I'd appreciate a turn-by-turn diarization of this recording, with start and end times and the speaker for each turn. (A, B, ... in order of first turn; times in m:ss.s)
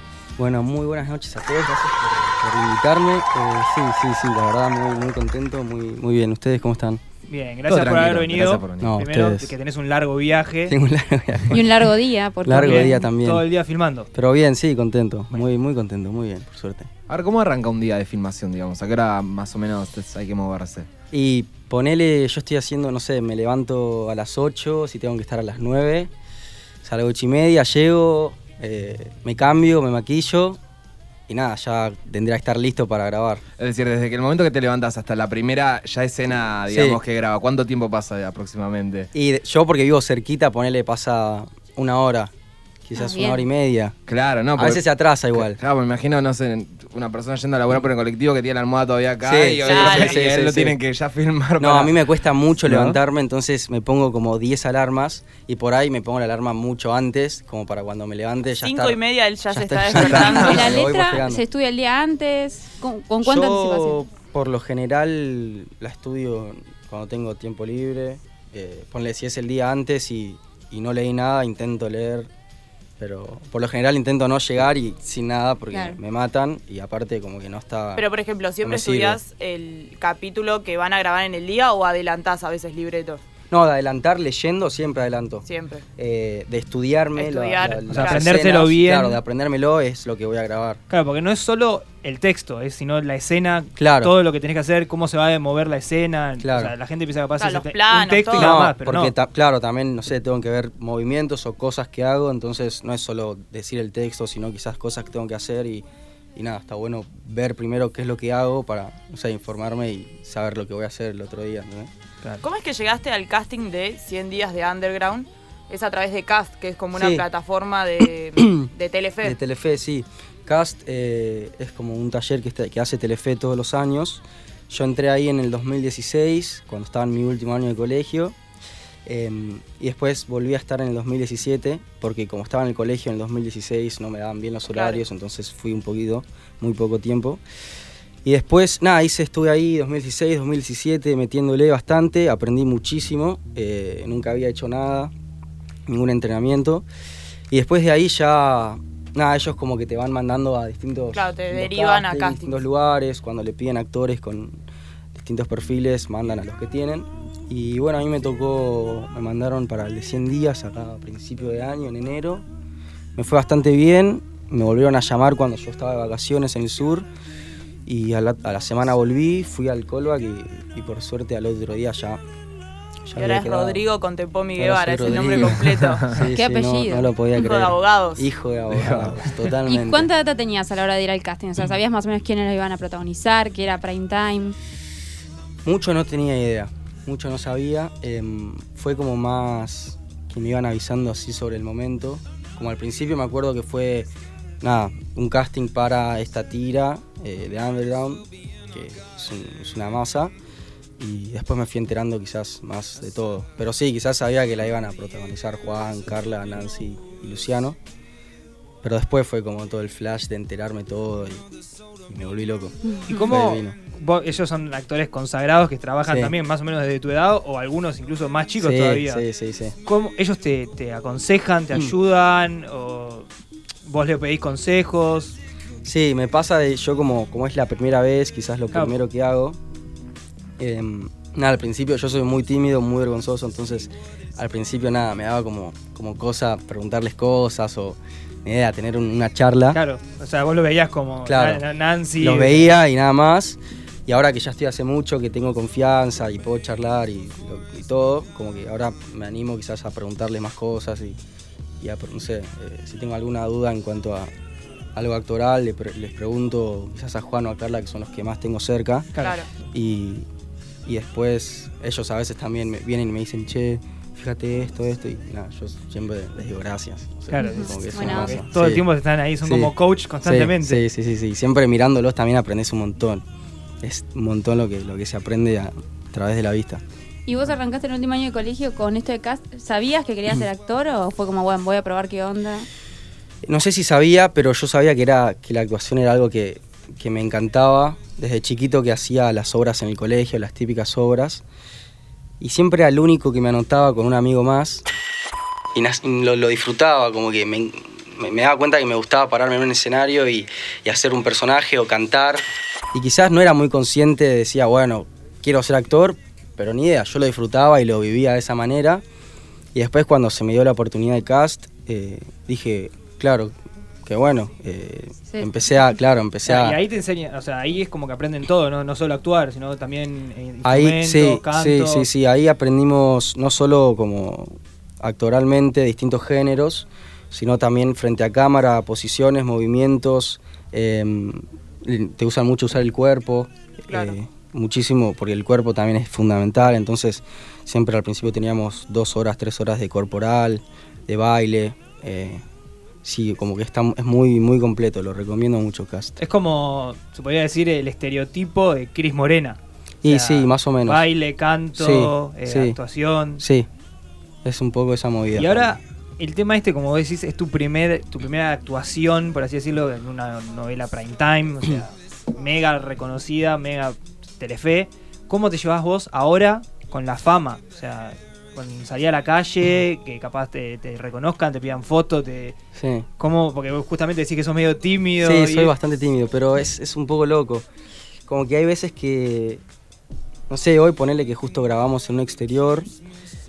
0:00.4-0:07.0 A
0:07.3-0:10.8 B
0:07.7-0:09.0 C
0:08.8-0:09.5 A
0:10.7-0:11.8 A
0:11.5-0:13.0 D
0:12.4-0:13.4 A
0:12.6-0:14.1 B
0:14.1-0:16.9 A
0:17.1-0:20.9 C
0:21.1-0:26.1 A
0:26.8-0:30.6 A
0:31.3-0:33.4 A
0:33.6-0:39.1 C
0:36.7-0:37.0 A
0:39.1-0:42.3 A
0:42.8-0:43.9 A
0:42.9-0:43.5 D
0:44.1-0:52.0 C
0:44.5-0:45.6 A
0:49.2-0:50.8 A
0:49.6-0:50.2 E
0:51.6-0:59.0 A
0:52.6-0:53.0 C
0:58.6-1:00.7 E
0:59.5-1:01.4 A
1:00.2-1:04.0 D
1:03.2-1:12.3 A
1:13.0-1:18.0 A
1:15.7-1:16.0 D
1:17.9-1:23.2 E
1:18.6-1:19.2 A
1:23.5-1:25.4 A
1:25.4-1:25.8 E
1:26.0-1:30.8 A
1:27.1-1:28.5 E
1:27.8-1:29.2 B
1:30.9-1:39.1 B
1:33.8-1:34.1 A
1:36.4-1:36.7 A
1:37.4-1:38.6 E
1:38.3-1:45.8 A
1:46.4-1:51.9 A
1:52.4-1:59.4 E
1:56.9-1:57.2 A
1:58.4-1:58.7 A
1:59.2-2:08.3 A
2:09.0-2:17.4 A
2:14.7-2:15.0 E
2:18.2-2:25.1 A
2:25.9-2:26.8 A
2:27.5-2:34.6 A
2:31.1-2:32.6 E
2:35.1-2:42.4 A
2:43.2-2:47.1 A
2:47.8-2:52.2 A
2:53.0-2:53.8 A
2:53.2-2:56.1 E
2:54.6-3:00.1 A
2:55.8-2:56.3 C
2:56.3-2:57.5 D
2:57.5-2:58.3 E
2:58.7-2:59.2 C
2:59.6-3:04.6 D
3:05.6-3:14.1 A
3:14.6-3:20.3 A
3:21.0-3:27.8 A
3:28.8-3:31.4 A
3:32.1-3:33.8 A
3:33.1-3:39.2 B
3:36.1-3:36.4 A
3:38.6-3:39.8 A
3:39.8-3:43.3 B
3:43.8-3:45.4 B
3:45.8-3:49.6 A
3:48.7-3:49.0 B
3:50.6-3:59.8 A
3:59.7-4:02.8 B
4:01.2-4:01.6 A
4:02.2-4:11.2 A
4:11.8-4:14.3 A
4:15.0-4:19.1 A
4:19.2-4:19.5 E
4:19.7-4:20.2 A
4:20.8-4:28.8 A
4:27.3-4:30.8 B
4:27.4-4:28.4 D
4:29.4-4:33.2 A
4:33.8-4:36.8 A
4:37.2-4:42.7 D
4:43.4-4:51.4 A
4:52.4-4:54.8 A
4:55.7-5:02.4 A
5:02.9-5:09.0 A
5:09.7-5:16.8 A
5:16.4-5:22.1 B
5:20.6-5:42.4 A
5:33.9-5:34.2 E
5:43.0-5:46.2 A
5:46.2-5:53.4 B
5:50.0-5:51.1 A
5:51.8-5:52.8 A
5:53.4-5:53.7 A
5:54.4-5:55.8 A
5:55.3-6:12.5 B
6:12.7-6:13.1 A
6:13.2-6:15.8 B
6:15.2-6:17.6 A
6:18.3-6:19.6 A
6:20.5-6:22.9 A